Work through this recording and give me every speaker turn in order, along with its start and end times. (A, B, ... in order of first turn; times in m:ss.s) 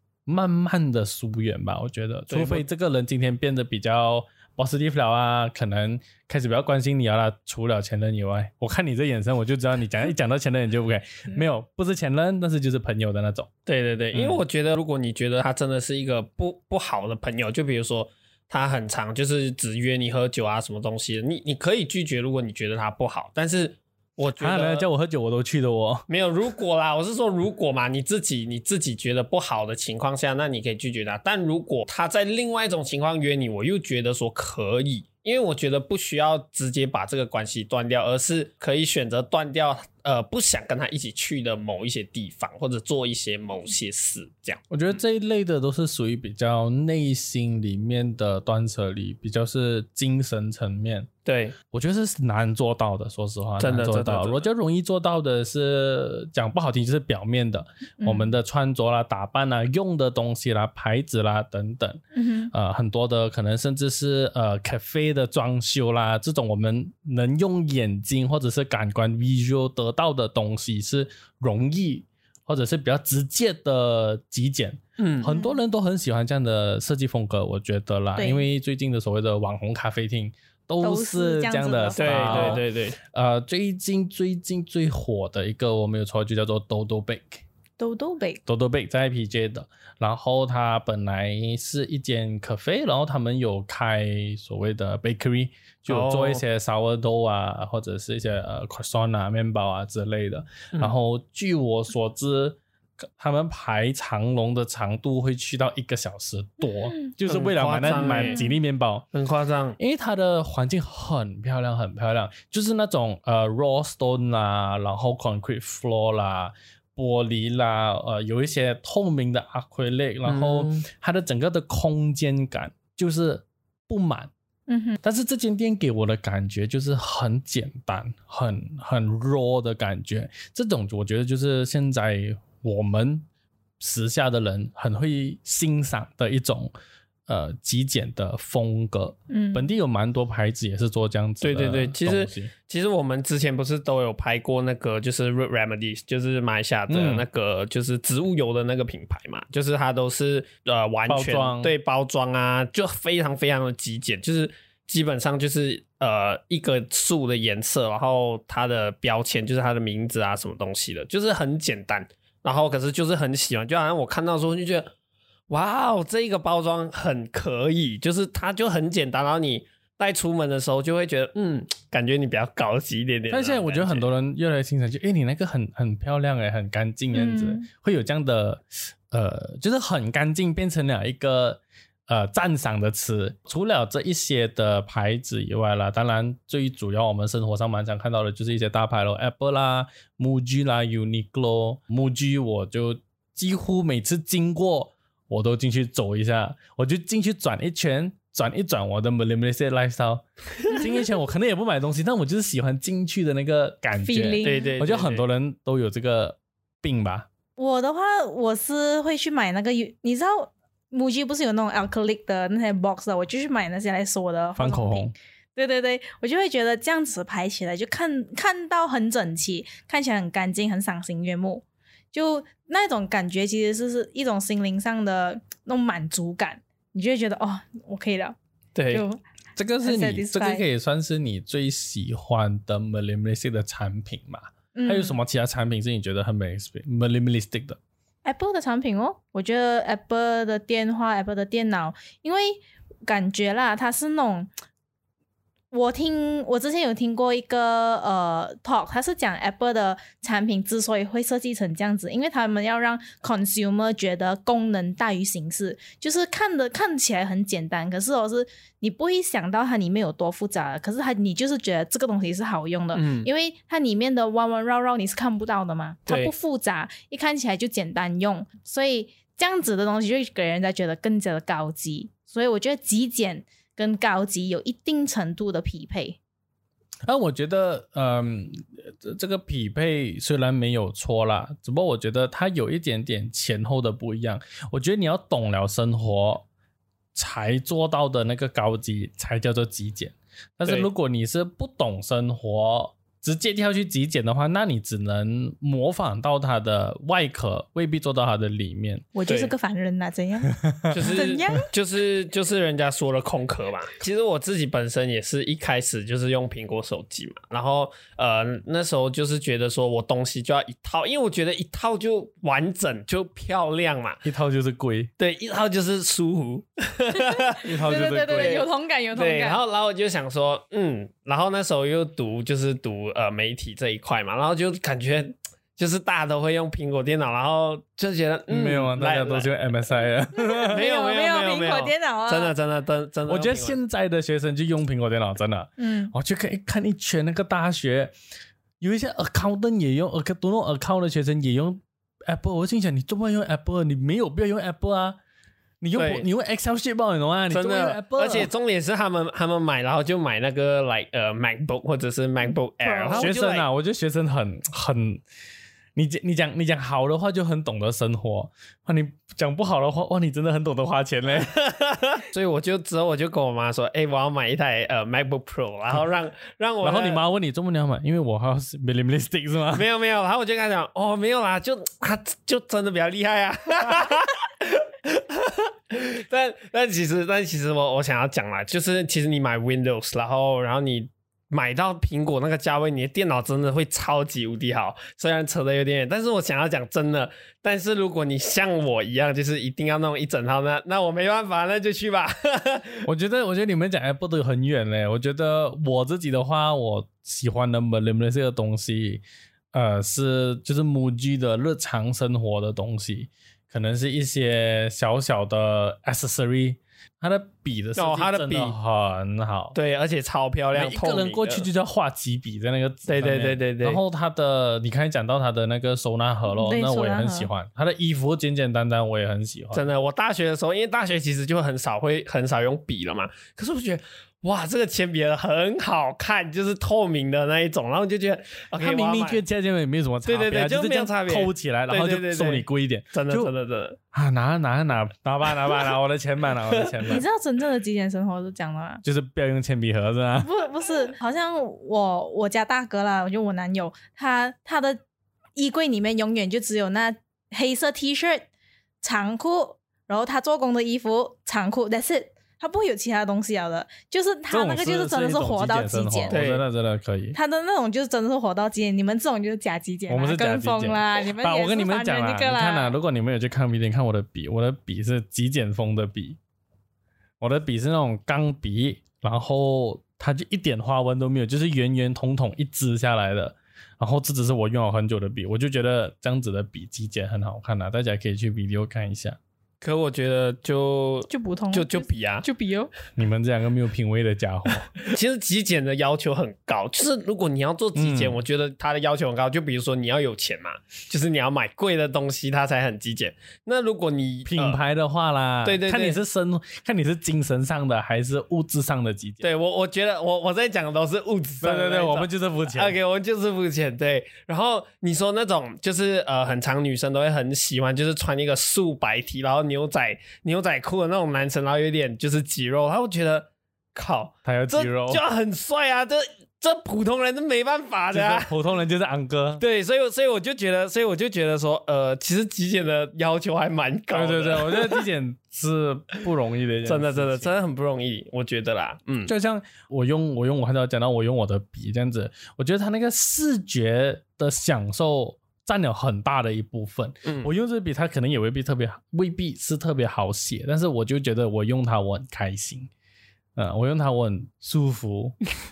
0:00.3-0:13.5 A
0:02.3-0:02.6 B
0:13.7-0:24.9 B
0:14.1-0:14.4 A
0:24.4-0:26.1 A
0:26.1-0:44.6 B
0:44.7-0:51.1 A
0:51.3-0:51.6 B
0:51.7-1:27.4 A
0:53.6-0:54.4 B
0:58.0-0:58.3 C
1:02.1-1:02.5 C
1:15.0-1:15.3 B
1:15.2-1:15.6 C
1:18.2-1:18.4 C
1:20.8-1:22.6 C
1:22.0-1:23.0 B
1:27.8-1:28.4 C
1:28.5-1:49.1 A
1:35.9-1:36.4 B
1:47.3-1:48.4 B
1:48.0-1:48.5 C
1:49.1-1:49.8 B
1:49.8-2:04.3 A
2:00.3-2:00.8 B
2:04.7-2:05.0 C
2:05.0-2:13.2 A
2:13.8-2:16.7 A
2:17.3-2:22.5 A
2:19.3-2:19.6 C
2:21.4-2:44.9 B
2:26.9-2:27.3 A
2:31.1-2:31.7 A
2:45.5-2:54.1 B
2:53.3-3:27.3 A
2:57.1-2:57.7 C
3:24.0-3:24.7 C
3:24.4-3:25.2 B
3:27.6-3:48.4 C
3:34.6-3:35.1 A
3:48.8-3:49.0 B
3:48.9-3:49.2 C
3:49.6-3:57.8 A
3:49.8-3:50.6 C
3:54.7-3:55.2 C
3:58.2-4:04.5 C
4:05.7-4:36.2 C
4:22.9-4:23.3 B
4:26.1-4:26.3 B
4:37.1-4:46.5 A
4:47.2-4:59.1 A
4:59.2-5:01.7 C
4:59.3-4:59.5 B
5:00.6-5:01.2 A
5:00.9-5:14.2 B
5:14.2-5:15.1 A
5:15.2-5:17.7 B
5:17.2-5:19.6 C
5:17.6-5:18.6 A
5:18.3-5:29.5 B
5:28.5-5:30.8 A
5:30.4-5:32.5 C
5:30.6-5:33.8 B
5:33.3-5:38.1 A
5:35.8-5:36.1 C
5:38.8-5:45.2 A
5:45.8-5:48.5 A
5:46.0-5:46.3 B
5:47.5-5:53.7 B
5:52.8-5:53.3 C
5:53.1-5:55.2 A
5:56.0-6:01.6 A
6:01.4-6:07.2 B
6:06.8-6:09.8 A
6:09.7-6:33.1 B
6:33.0-6:49.8 A
6:48.0-6:48.8 B
6:49.8-6:51.7 B
6:50.7-6:59.9 A
6:53.1-6:54.0 B
6:56.5-6:57.5 C
6:59.7-7:09.4 B
7:08.8-7:13.5 A
7:10.2-7:14.0 B
7:14.1-7:17.2 A
7:16.7-7:17.2 B
7:17.1-7:19.0 C
7:19.0-7:20.5 A
7:20.4-7:25.0 C
7:25.6-7:28.5 C
7:29.0-7:36.4 C
7:34.5-7:37.4 A
7:36.3-7:36.6 B
7:37.3-7:43.0 C
7:40.1-7:46.4 A
7:47.4-7:59.4 A
7:59.8-8:02.4 B
8:01.3-8:02.9 C
8:03.2-8:04.9 A
8:05.0-8:14.8 B
8:08.0-8:08.4 A
8:14.4-8:19.5 A
8:15.6-8:16.2 B
8:19.4-8:38.5 B
8:21.6-8:23.0 A
8:34.4-8:35.2 A
8:38.1-8:39.6 A
8:39.6-8:45.1 B
8:44.1-8:47.6 A
8:46.8-8:49.3 B
8:49.2-9:02.9 A
8:57.2-8:57.5 B
9:03.6-9:05.4 A